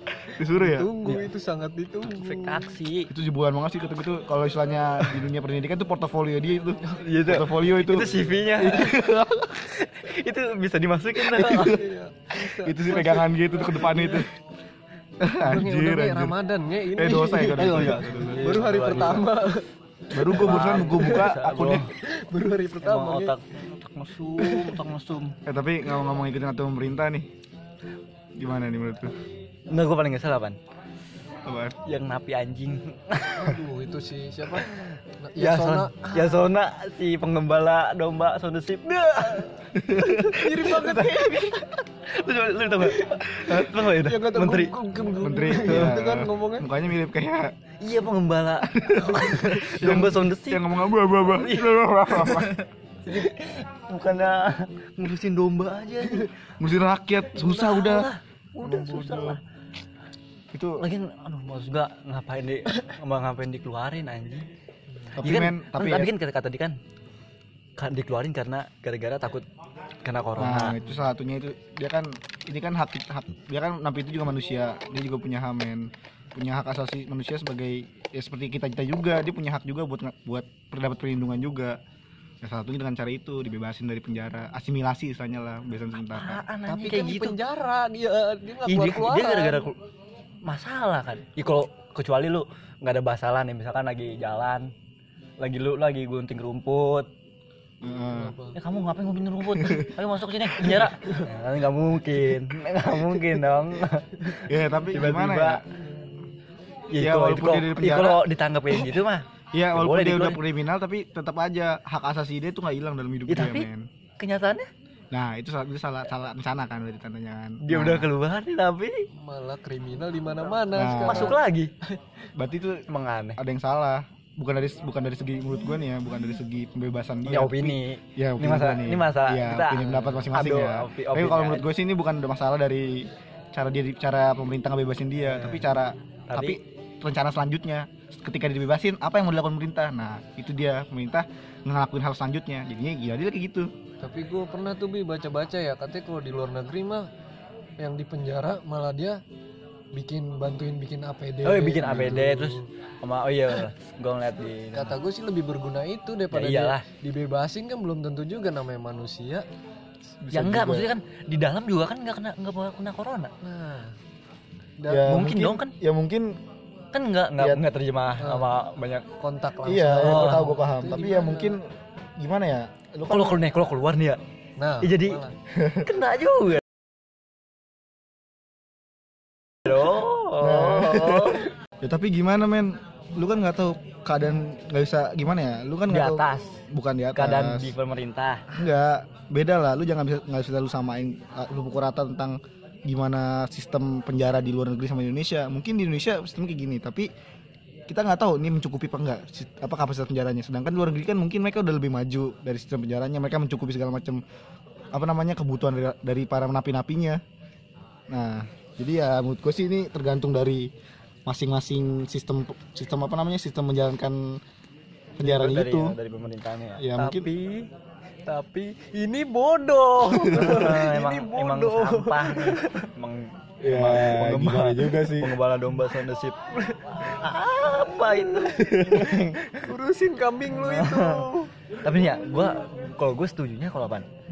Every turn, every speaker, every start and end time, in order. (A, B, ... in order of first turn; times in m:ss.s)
0:00.2-0:01.0 A
0:00.4-0:02.7 B
0:02.1-0:03.1 C
0:03.1-0:09.7 A
0:06.9-0:11.8 C
0:11.4-0:14.3 B
0:11.4-0:11.8 A
0:12.6-0:14.3 A
0:15.2-0:16.4 A
0:15.2-0:21.4 B
0:16.9-0:18.6 A
0:17.4-0:19.3 C
0:20.1-0:21.9 A
0:20.2-0:21.9 C
0:22.0-0:23.4 B
0:22.8-0:25.4 C
0:24.4-0:24.8 B
0:25.4-0:27.3 A
0:28.4-0:29.2 A
0:29.7-0:30.6 C
0:31.4-0:31.8 A
0:31.8-0:33.6 C
0:33.4-0:36.5 B
0:34.6-0:39.5 C
0:38.9-0:41.6 B
0:39.8-0:40.5 A
0:40.6-0:44.7 C
0:42.8-0:46.7 B
0:45.2-0:47.6 A
0:47.8-0:52.5 C
0:48.7-0:52.6 A
0:53.0-0:56.3 C
0:56.6-0:58.1 A
0:57.4-0:59.4 C
0:58.6-0:59.4 A
1:00.5-1:00.8 A
1:00.8-1:04.5 C
1:05.2-1:06.1 A
1:05.2-1:06.8 C
1:07.8-1:09.5 C
1:10.0-1:10.8 C
1:10.4-1:21.8 A
1:22.4-1:26.4 A
1:26.0-1:27.4 C
1:26.7-1:29.7 B
1:28.7-1:29.8 C
1:30.4-1:34.7 C
1:35.4-1:37.1 C
1:37.8-1:38.4 A
1:38.1-1:38.6 B
1:38.6-1:45.6 C
1:39.6-1:39.9 A
1:44.4-1:45.6 A
1:46.9-1:50.4 C
1:47.0-1:48.2 A
1:49.5-1:53.9 A
1:53.3-1:53.7 C
1:54.2-1:54.7 C
1:55.1-1:58.1 A
1:57.6-1:59.1 C
1:59.1-2:02.0 B
2:00.7-2:01.4 A
2:01.0-2:01.7 C
2:02.4-2:02.8 A
2:02.9-2:03.4 C
2:03.4-2:23.7 A
2:07.2-2:11.7 C
2:15.3-2:15.6 B
2:16.3-2:16.6 C
2:24.0-2:27.1 B
2:27.8-2:29.2 B
2:29.9-2:32.7 B
2:31.4-2:35.0 C
2:34.8-2:39.5 B
2:36.3-2:36.8 C
2:40.2-2:40.9 A
2:40.3-2:43.3 C
2:43.4-2:44.0 B
2:44.8-2:45.1 B
2:44.9-2:46.4 A
2:45.1-2:45.7 C
2:46.9-2:49.1 C
2:48.2-2:48.5 B
2:49.2-2:51.6 B
2:49.6-2:53.4 A
2:50.0-2:50.5 C
2:53.1-2:54.2 C
2:54.6-2:55.4 B
2:54.8-2:55.2 C
2:55.5-2:55.8 A
2:55.8-2:56.6 C
2:59.7-3:01.5 C
3:00.4-3:07.7 A
3:05.9-3:06.6 C
3:07.1-3:08.4 C
3:08.5-3:17.1 A
3:17.9-3:24.2 A
3:24.9-3:27.2 A
3:28.1-3:30.7 A
3:31.2-3:34.4 A
3:35.2-3:36.0 A
3:35.2-3:37.7 C
3:36.8-3:37.3 A
3:38.2-3:42.9 B
3:40.1-3:40.7 A
3:40.2-3:46.4 C
3:43.6-3:45.4 A
3:47.0-3:49.7 C
3:48.6-3:49.2 A
3:49.6-3:51.5 B
3:50.6-3:51.3 C
3:51.8-3:54.1 C